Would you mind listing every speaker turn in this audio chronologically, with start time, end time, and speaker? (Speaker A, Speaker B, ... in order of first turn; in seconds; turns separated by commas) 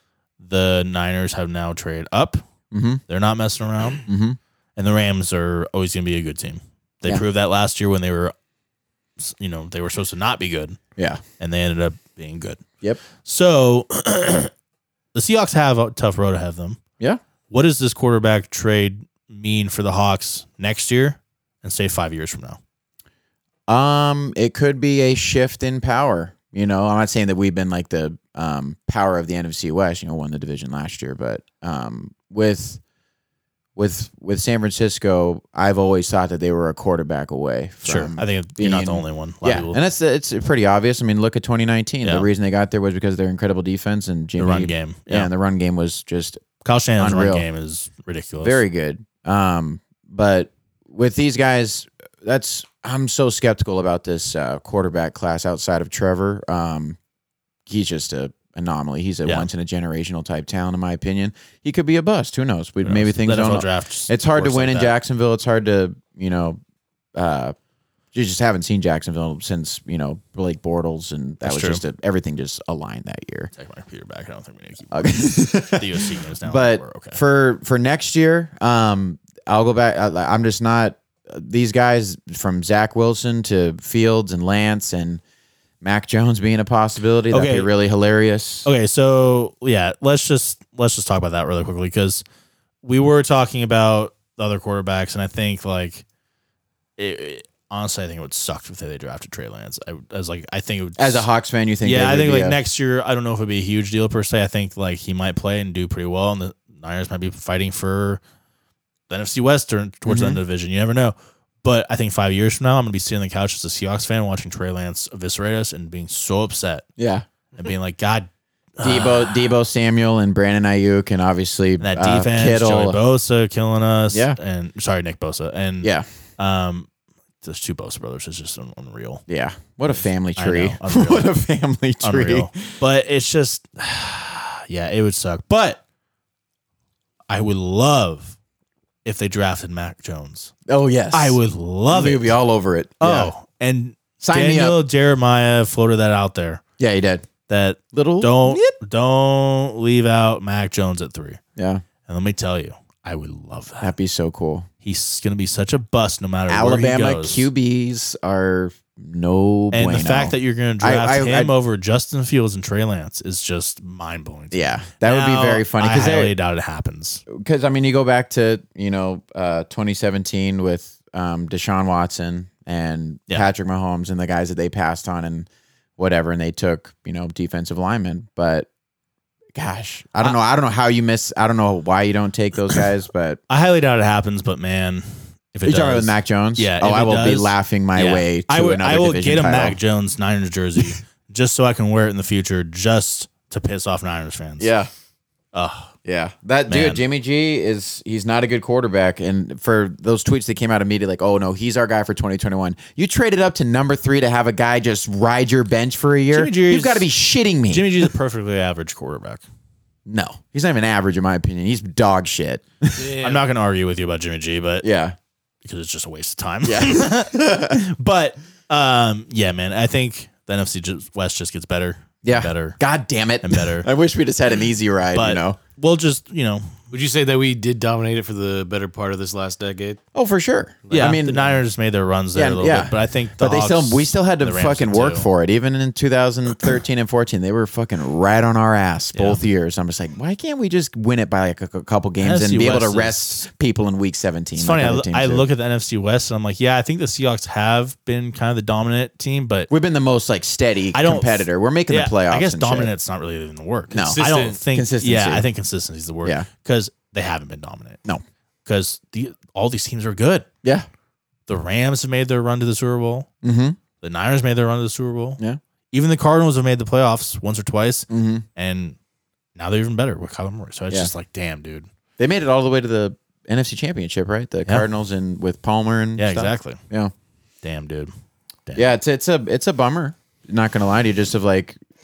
Speaker A: 0.4-2.4, Speaker B: 2.7-3.0, Speaker A: 3.1-4.0, Speaker B: 4.1-4.4, Speaker A: 4.8-8.3, Speaker A: 9.2-10.8, Speaker A: 11.4-12.6, Speaker A: 13.2-14.5, Speaker A: 15.1-16.8, Speaker A: 17.5-22.6, Speaker B: 23.7-32.8, Speaker B: 33.8-46.4, Speaker A: 37.8-39.8, Speaker A: 44.4-45.3, Speaker A: 46.6-48.6, Speaker B: 47.0-47.5, Speaker B: 48.4-57.0, Speaker B: 57.7-66.6, Speaker A: 62.8-65.0, Speaker B: 67.2-67.5, Speaker B: 68.1-73.5, Speaker A: 71.4-71.8, Speaker A: 73.6-77.2, Speaker B: 74.9-85.2, Speaker B: 85.8-88.7, Speaker A: 87.3-87.7, Speaker A: 88.7-92.2, Speaker A: 92.8-96.0, Speaker A: 97.0-101.3, Speaker B: 101.0-102.6, Speaker A: 101.8-108.2, Speaker A: 109.1-116.9, Speaker B: 110.1-110.4, Speaker B: 117.0-117.2, Speaker A: 117.6-119.5, Speaker B: 118.8-123.0, Speaker A: 121.8-126.9, Speaker B: 124.1-124.4, Speaker A: 127.4-129.2, Speaker B: 129.3-132.7, Speaker A: 129.9-131.3, Speaker A: 132.0-135.8, Speaker A: 137.3-138.3, Speaker A: 139.1-140.5, Speaker B: 140.7-141.4, Speaker A: 141.1-142.4, Speaker B: 141.9-143.3, Speaker A: 143.0-146.6, Speaker B: 144.2-144.8, Speaker B: 146.8-147.3, Speaker A: 147.5-151.4, Speaker B: 147.9-148.8, Speaker B: 151.6-151.8, Speaker A: 152.1-153.9, Speaker B: 153.8-154.7, Speaker A: 154.8-157.5, Speaker B: 156.5-161.5, Speaker A: 159.7-167.2, Speaker B: 164.5-166.3, Speaker B: 167.3-178.7, Speaker B: 179.6-183.4, Speaker A: 183.5-194.7, Speaker B: 185.7-189.8, Speaker B: 194.6-194.9, Speaker A: 195.5-195.9, Speaker B: 196.1-208.1, Speaker A: 196.7-197.0, Speaker A: 206.3-207.1, Speaker A: 207.7-209.4, Speaker B: 210.1-213.1, Speaker C: 213.0-213.4, Speaker A: 213.2-214.8, Speaker B: 214.8-215.2, Speaker A: 215.6-222.8, Speaker B: 216.7-217.8, Speaker B: 222.2-225.6, Speaker A: 223.4-223.9, Speaker A: 225.2-226.7, Speaker C: 226.9-230.0, Speaker B: 230.2-231.5, Speaker C: 230.9-231.2, Speaker A: 230.9-235.3, Speaker B: 232.3-245.4, Speaker A: 239.2-239.4, Speaker A: 242.2-243.4, Speaker A: 244.6-249.7, Speaker B: 249.7-252.9, Speaker A: 250.9-258.0, Speaker B: 253.9-255.5, Speaker C: 254.0-254.6, Speaker A: 258.7-260.5, Speaker A: 261.5-263.3, Speaker B: 263.4-263.8, Speaker A: 264.0-265.4, Speaker A: 265.9-269.0, Speaker B: 268.1-268.4, Speaker A: 269.6-271.9, Speaker B: 272.2-277.1, Speaker A: 276.2-276.8, Speaker A: 277.6-278.1, Speaker B: 278.8-281.8